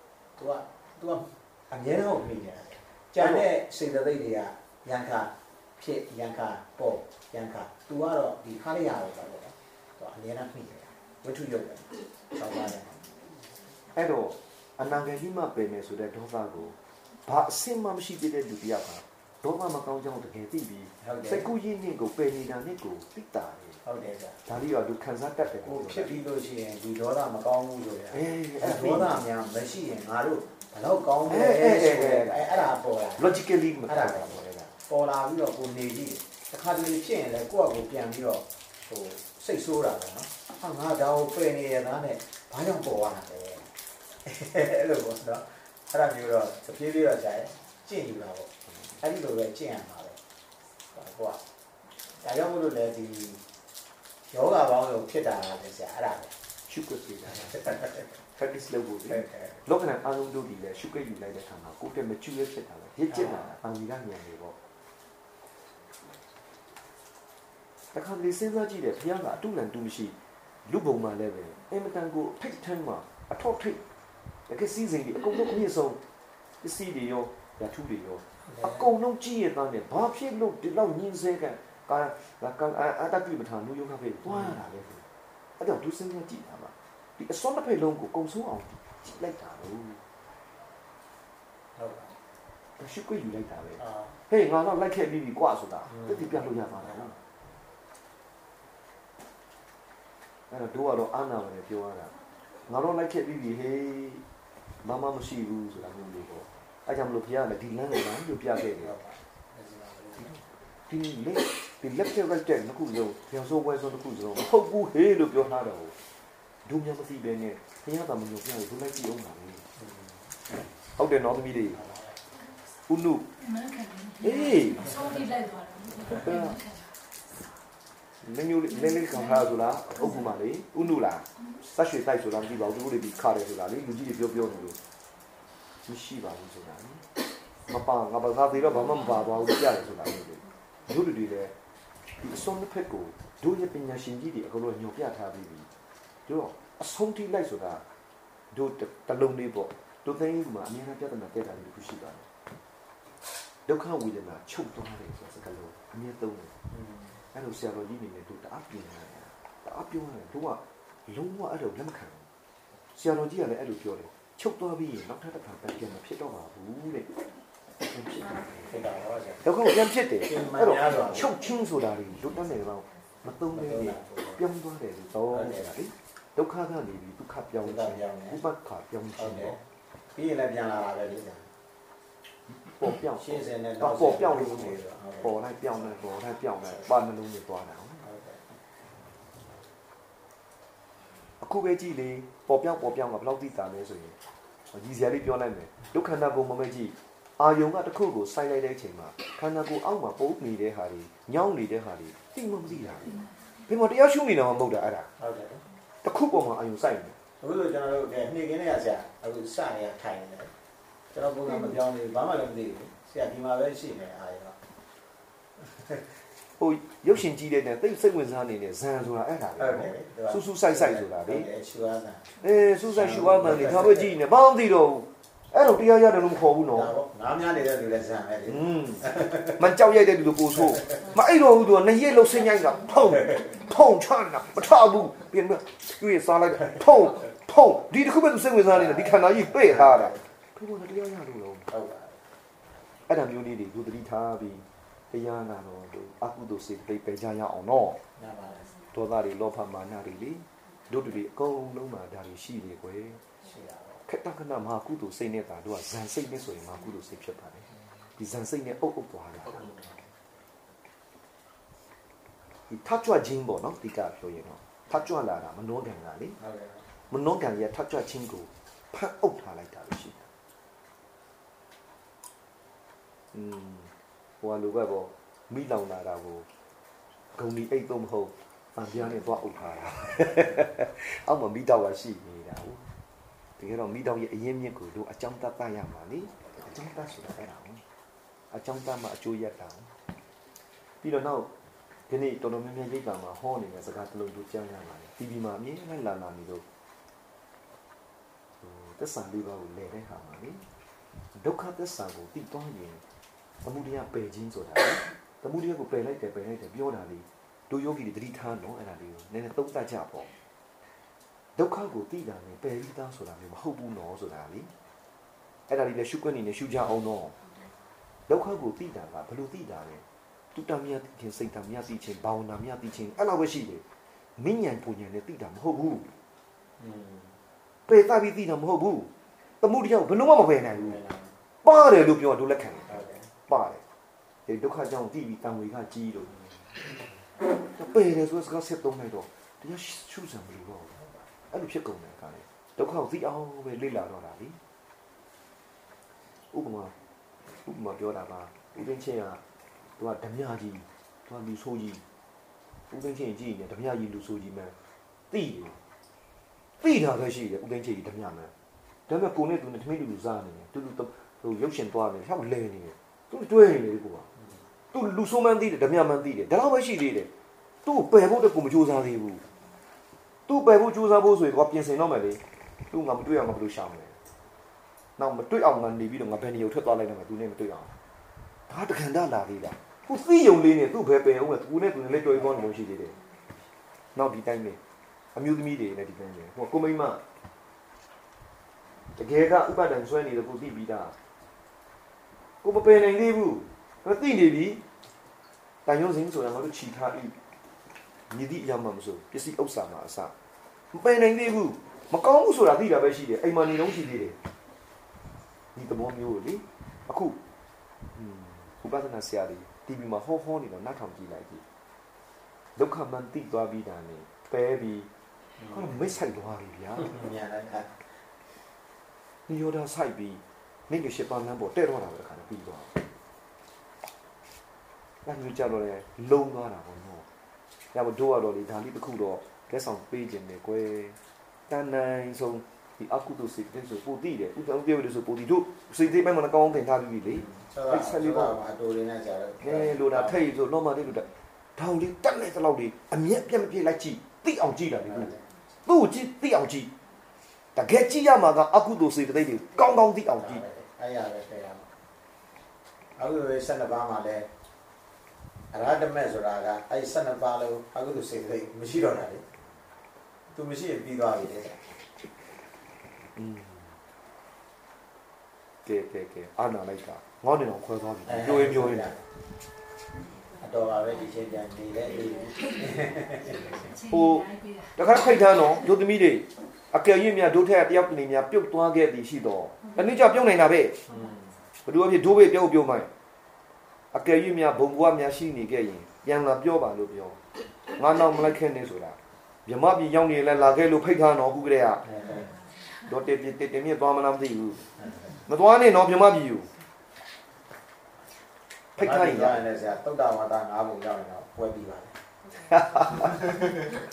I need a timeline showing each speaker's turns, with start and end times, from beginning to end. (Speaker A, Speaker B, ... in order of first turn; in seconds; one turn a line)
Speaker A: 0.4-13.1
Speaker B: 3.2-3.5
Speaker B: 13.9-23.8
Speaker A: 21.0-21.4
Speaker A: 23.8-24.4
Speaker B: 24.5-26.2
Speaker A: 25.6-33.3
Speaker B: 28.1-29.2
Speaker B: 31.3-34.7
Speaker A: 33.9-43.7
Speaker A: 44.2-48.5
Speaker A: 49.0-50.2
Speaker A: 50.9-51.4
Speaker A: 52.2-53.4
Speaker A: 54.3-56.3
Speaker B: 56.7-57.6
Speaker A: 57.4-58.0
Speaker B: 58.4-64.6
Speaker A: 59.1-59.6
Speaker A: 63.1-63.4
Speaker B: 67.9-73.8
Speaker B: 74.5-76.0
Speaker B: 76.6-85.0
Speaker A: 78.5-78.9
Speaker A: 84.3-84.6
Speaker B: 85.6-90.0
Speaker A: 91.8-92.2
Speaker B: 92.8-97.2
Speaker A: 93.8-94.2
Speaker A: 95.9-97.1
Speaker B: 100.5-102.1
Speaker B: 102.7-104.2
Speaker B: 104.8-109.0
Speaker A: 108.8-110.4
Speaker B: 110.9-116.0
Speaker B: 116.7-119.6
Speaker A: 119.8-120.4
Speaker B: 121.0-121.8
Speaker A: 121.7-122.2
Speaker B: 122.9-123.3
Speaker C: 123.4-126.9
Speaker B: 124.2-124.9
Speaker B: 126.1-126.6
Speaker B: 128.2-134.8
Speaker C: 128.9-129.3
Speaker B: 135.9-137.0
Speaker B: 137.7-141.5
Speaker B: 142.2-145.7
Speaker B: 146.3-147.8
Speaker B: 148.5-152.2
Speaker B: 153.7-156.5
Speaker A: 156.7-157.2
Speaker B: 157.3-162.2
Speaker B: 162.9-167.1
Speaker B: 167.9-168.5
Speaker A: 168.3-169.4
Speaker B: 169.4-179.6
Speaker A: 170.2-171.3
Speaker A: 173.5-174.4
Speaker A: 175.3-175.7
Speaker A: 177.6-178.4
Speaker A: 179.2-179.6
Speaker A: 180.2-181.5
Speaker B: 182.7-188.0
Speaker A: 183.2-185.3
Speaker A: 188.0-188.5
Speaker B: 191.4-194.2
Speaker B: 194.7-205.1
Speaker A: 205.2-205.6
Speaker B: 206.0-207.2
Speaker A: 207.4-210.5
Speaker A: 211.1-214.6
Speaker B: 211.5-211.8
Speaker A: 215.6-216.1
Speaker B: 216.6-221.5
Speaker A: 219.6-222.4
Speaker B: 222.4-226.9
Speaker A: 222.9-224.1
Speaker A: 226.7-229.6
Speaker B: 228.5-241.7
Speaker A: 238.6-240.2
Speaker A: 241.7-242.2
Speaker B: 243.1-248.0
Speaker A: 248.2-248.7
Speaker B: 248.9-253.2
Speaker A: 253.4-254.0
Speaker B: 254.1-257.7
Speaker B: 258.2-259.7
Speaker A: 259.6-260.0
Speaker B: 262.7-266.4
Speaker A: 266.4-266.9
Speaker B: 267.1-270.3
Speaker B: 273.3-276.5
Speaker B: 277.4-282.8
Speaker B: 283.6-287.8
Speaker B: 288.5-289.9
Speaker B: 291.0-291.5
Speaker B: 292.1-296.6
Speaker B: 298.6-300.6
Speaker B: 301.3-303.0
Speaker B: 303.6-310.3
Speaker B: 311.6-314.7
Speaker B: 315.7-317.4
Speaker B: 318.3-323.8
Speaker B: 324.4-326.1
Speaker A: 326.8-327.4
Speaker B: 327.9-329.1
Speaker B: 329.6-331.0
Speaker A: 330.7-331.3
Speaker B: 331.6-333.8
Speaker A: 332.9-333.3
Speaker B: 334.5-336.4
Speaker A: 336.9-337.1
Speaker B: 337.8-340.9
Speaker A: 341.0-341.2
Speaker B: 341.5-344.6
Speaker B: 346.5-346.9
Speaker B: 347.6-349.4
Speaker B: 350.0-352.0
Speaker B: 352.9-354.7
Speaker B: 355.3-355.8
Speaker B: 356.8-358.5
Speaker B: 359.1-364.3
Speaker A: 364.4-364.6
Speaker B: 364.9-367.3
Speaker B: 367.9-369.4
Speaker B: 370.5-374.1
Speaker B: 375.2-377.9
Speaker B: 378.7-383.2
Speaker A: 382.4-382.7
Speaker B: 384.1-384.8
Speaker B: 385.4-387.2
Speaker B: 389.1-391.1
Speaker B: 392.6-394.8
Speaker B: 395.9-397.3
Speaker B: 398.3-400.3
Speaker B: 400.9-404.4
Speaker B: 405.8-407.4
Speaker B: 408.1-411.6
Speaker B: 412.8-415.1
Speaker A: 415.6-416.0
Speaker B: 415.7-417.1
Speaker A: 417.0-418.1
Speaker B: 419.5-422.9
Speaker B: 425.2-427.3
Speaker B: 427.9-431.2
Speaker B: 431.7-438.6
Speaker A: 437.3-440.4
Speaker B: 439.6-445.3
Speaker A: 445.1-445.4
Speaker B: 445.9-446.9
Speaker B: 447.8-450.6
Speaker A: 450.4-451.9
Speaker A: 453.2-454.5
Speaker A: 455.7-459.4
Speaker A: 460.5-461.8
Speaker B: 463.4-464.0
Speaker B: 465.9-469.1
Speaker A: 468.3-469.2
Speaker A: 470.6-473.9
Speaker C: 473.8-475.8
Speaker B: 474.1-481.0
Speaker A: 481.1-481.5
Speaker B: 481.8-483.1
Speaker B: 484.1-487.4
Speaker B: 487.9-492.0
Speaker A: 492.0-492.5
Speaker B: 493.1-494.9
Speaker B: 495.5-496.7
Speaker B: 499.0-499.6
Speaker A: 499.0-502.1
Speaker B: 502.7-503.5